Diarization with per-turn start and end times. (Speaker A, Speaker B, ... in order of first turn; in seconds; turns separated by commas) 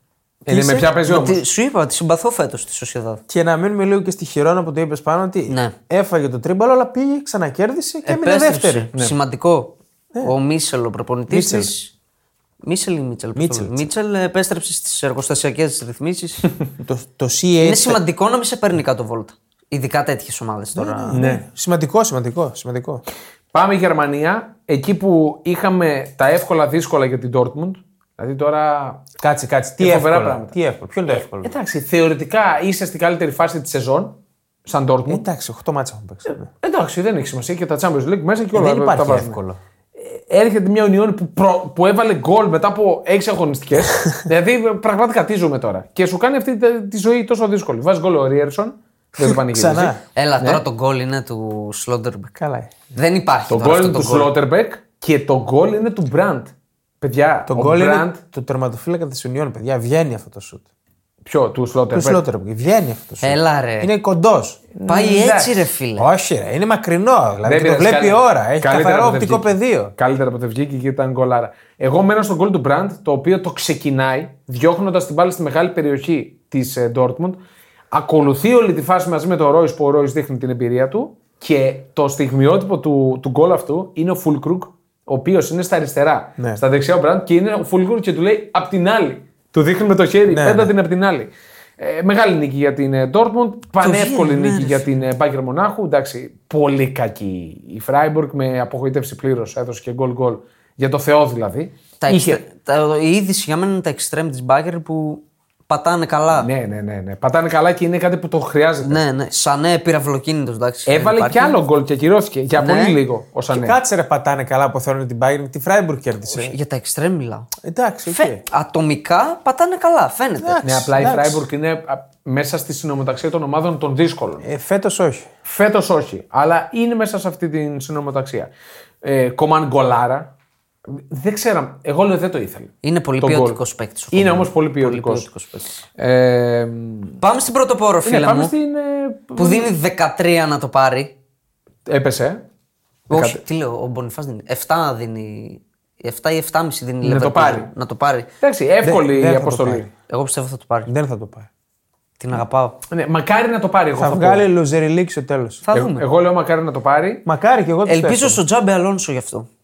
Speaker A: 0.4-1.4, Speaker B: 0.5-0.9, Speaker C: 1.0-3.2, Speaker B: 3.3-8.9, Speaker C: 5.5-5.7, Speaker C: 8.1-11.9, Speaker B: 11.3-11.7, Speaker C: 12.6-16.5, Speaker B: 13.4-13.9, Speaker B: 16.8-18.0, Speaker C: 17.6-21.2, Speaker B: 20.8-23.0, Speaker A: 21.1-21.4, Speaker A: 23.5-29.1, Speaker B: 29.2-31.6, Speaker A: 29.8-30.6, Speaker A: 31.1-35.2, Speaker B: 35.1-36.5, Speaker A: 36.6-39.4, Speaker B: 38.5-39.6, Speaker A: 39.9-50.6, Speaker B: 49.2-50.0, Speaker C: 50.1-52.3, Speaker B: 52.4-52.7, Speaker C: 52.9-54.3, Speaker A: 53.5-58.2, Speaker B: 57.5-60.6, Speaker A: 61.2-62.2, Speaker B: 61.9-64.6, Speaker C: 63.2-63.9, Speaker A: 64.7-65.7, Speaker C: 64.9-66.1, Speaker B: 66.0-69.9, Speaker A: 67.4-77.4, Speaker A: 77.9-102.4, Speaker B: 90.3-90.7, Speaker C: 93.8-94.9, Speaker C: 102.0-106.5, Speaker A: 106.3-109.0, Speaker C: 108.8-111.6, Speaker A: 110.9-113.8, Speaker C: 112.5-113.0, Speaker B: 113.5-116.5, Speaker C: 116.3-117.5, Speaker B: 117.6-118.4, Speaker C: 118.1-120.6, Speaker B: 120.4-121.4, Speaker A: 120.6-124.5, Speaker B: 124.4-125.3, Speaker A: 125.4-128.5, Speaker A: 129.0-130.3, Speaker A: 130.9-133.6, Speaker C: 132.8-135.9, Speaker A: 134.1-135.3, Speaker A: 136.0-137.2, Speaker C: 137.2-138.5, Speaker A: 138.0-139.7, Speaker C: 139.4-141.1, Speaker A: 141.9-142.4, Speaker C: 143.1-148.3, Speaker A: 143.1-143.4, Speaker A: 147.0-147.7, Speaker A: 148.4-149.9, Speaker B: 148.8-149.9, Speaker C: 150.1-150.9, Speaker B: 150.9-151.5, Speaker C: 152.2-152.8, Speaker A: 152.9-154.5, Speaker B: 154.0-155.6, Speaker C: 155.6-156.1, Speaker A: 155.7-157.2, Speaker B: 157.2-158.4, Speaker C: 157.9-159.5